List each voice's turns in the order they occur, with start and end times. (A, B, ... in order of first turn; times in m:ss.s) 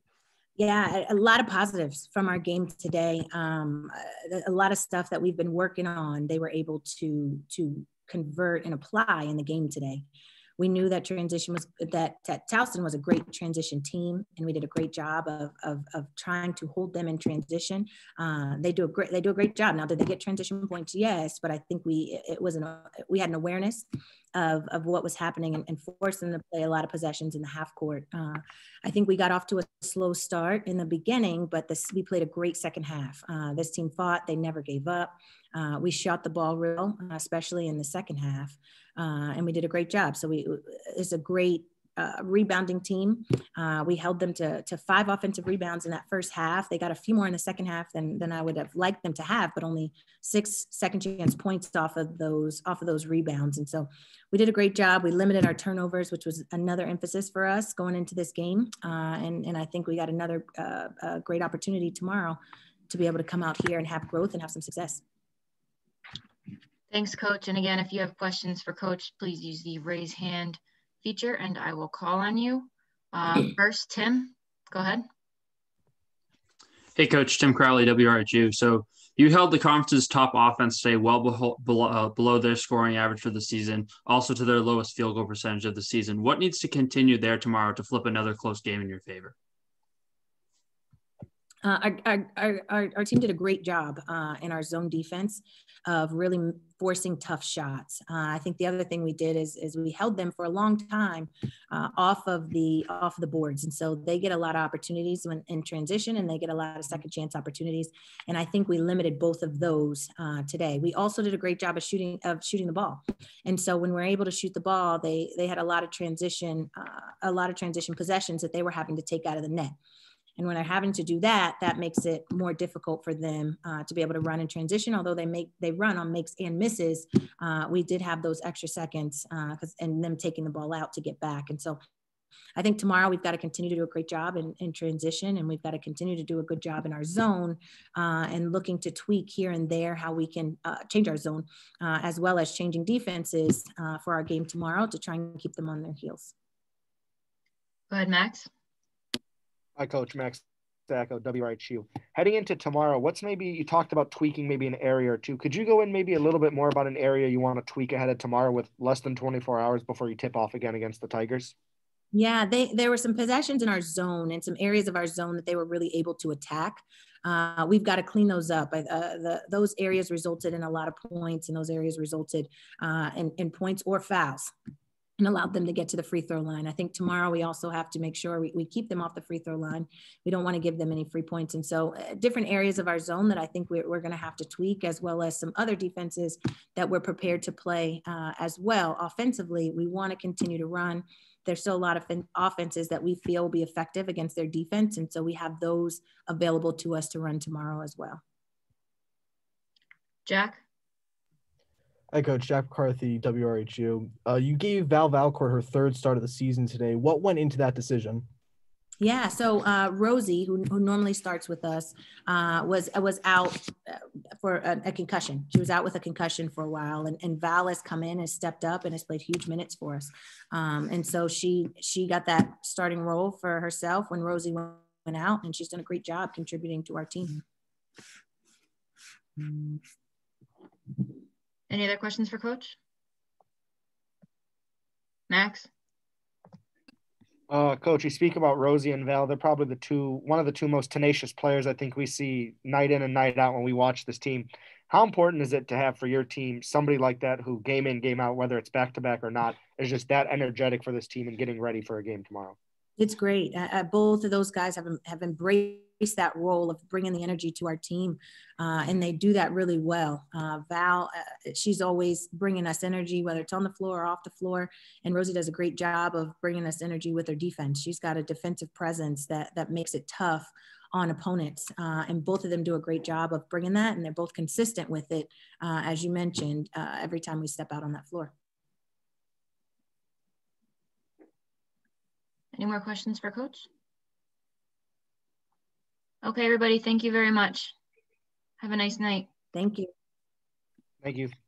0:00.6-0:10.1 A
0:10.6-1:05.0 A
1:06.9-1:15.0 B
1:17.0-1:29.3 C
1:31.6-1:59.8 A
2:00.4-2:11.8 A
2:12.6-2:26.3 A
2:27.9-2:28.5 B
2:29.8-2:41.5 D
2:42.1-2:54.5 A
2:55.2-3:18.2 A
3:20.2-3:20.6 B
3:22.1-3:28.3 E
3:29.0-3:47.4 A
3:51.7-3:52.8 B
3:55.3-3:55.7 B
3:57.5-4:12.6 D
4:13.0-4:38.3 A
4:42.5-4:43.7 B
4:46.2-4:47.8 B
4:48.6-4:49.3 B
4:49.5-4:49.9 A
4:51.0-4:51.3 D